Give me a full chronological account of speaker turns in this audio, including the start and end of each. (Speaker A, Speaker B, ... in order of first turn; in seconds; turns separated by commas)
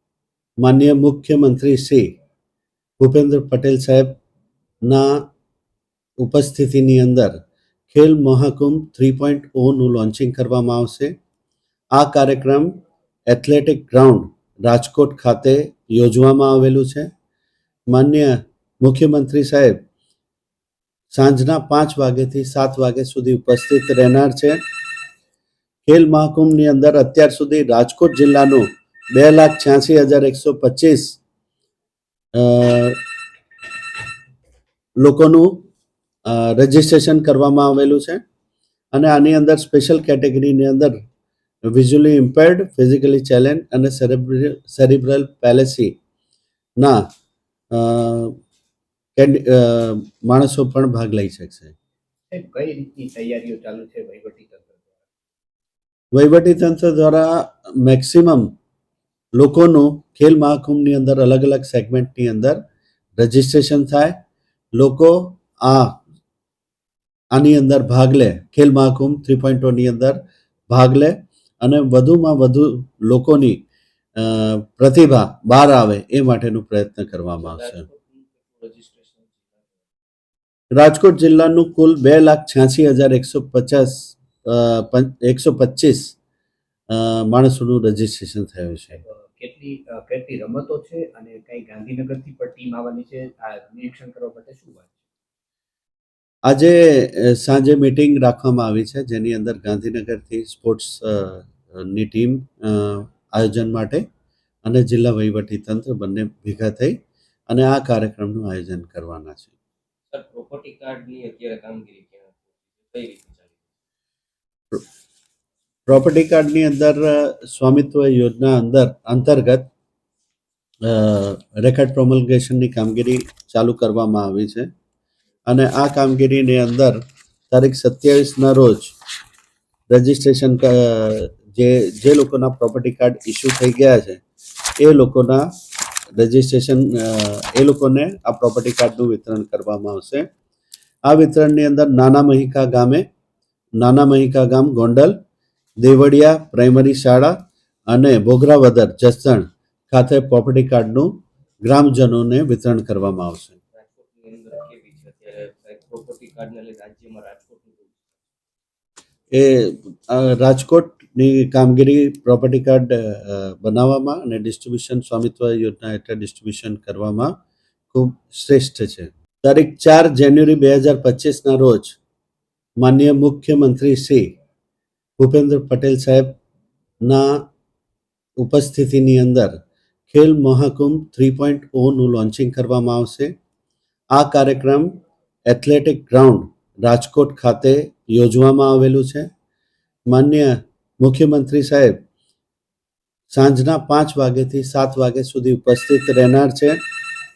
Speaker A: 0.6-2.1, Speaker A: 3.0-4.2, Speaker A: 4.8-5.2, Speaker A: 6.2-7.3, Speaker A: 7.9-11.1, Speaker A: 11.9-12.7, Speaker A: 13.3-17.1, Speaker A: 17.9-19.8, Speaker A: 21.1-24.6, Speaker A: 25.9-31.2, Speaker A: 32.4-33.0, Speaker A: 35.0-35.5, Speaker A: 36.3-38.2, Speaker A: 38.9-40.9, Speaker A: 41.7-45.9, Speaker A: 47.7-48.4, Speaker A: 49.1-51.7, Speaker B: 52.3-55.1, Speaker A: 56.1-58.5, Speaker A: 59.4-62.6, Speaker A: 63.2-64.1, Speaker A: 64.8-66.0, Speaker A: 67.3-70.2, Speaker A: 70.7-73.6, Speaker A: 74.2-77.8, Speaker C: 77.4-79.8, Speaker A: 80.7-86.1, Speaker A: 86.9-89.0, Speaker B: 89.0-95.0, Speaker A: 96.5-104.0, Speaker A: 104.6-107.0, Speaker A: 107.5-109.5, Speaker C: 110.1-113.7, Speaker A: 115.9-119.6, Speaker A: 120.9-124.7, Speaker A: 125.5-127.0, Speaker A: 127.5-128.9, Speaker A: 129.9-134.2, Speaker A: 134.8-135.4, Speaker A: 136.2-140.3, Speaker A: 141.1-143.1, Speaker A: 143.8-145.2, Speaker A: 145.8-147.3, Speaker A: 147.9-151.1, Speaker A: 151.6-153.6, Speaker C: 153.7-158.2, Speaker A: 159.3-167.3, Speaker A: 167.9-172.0, Speaker A: 172.8-174.3, Speaker A: 175.2-176.3, Speaker A: 177.0-177.5, Speaker A: 178.4-179.5, Speaker A: 180.1-183.3, Speaker A: 184.1-184.9, Speaker A: 185.5-189.3, Speaker A: 190.1-192.0, Speaker A: 193.3-196.8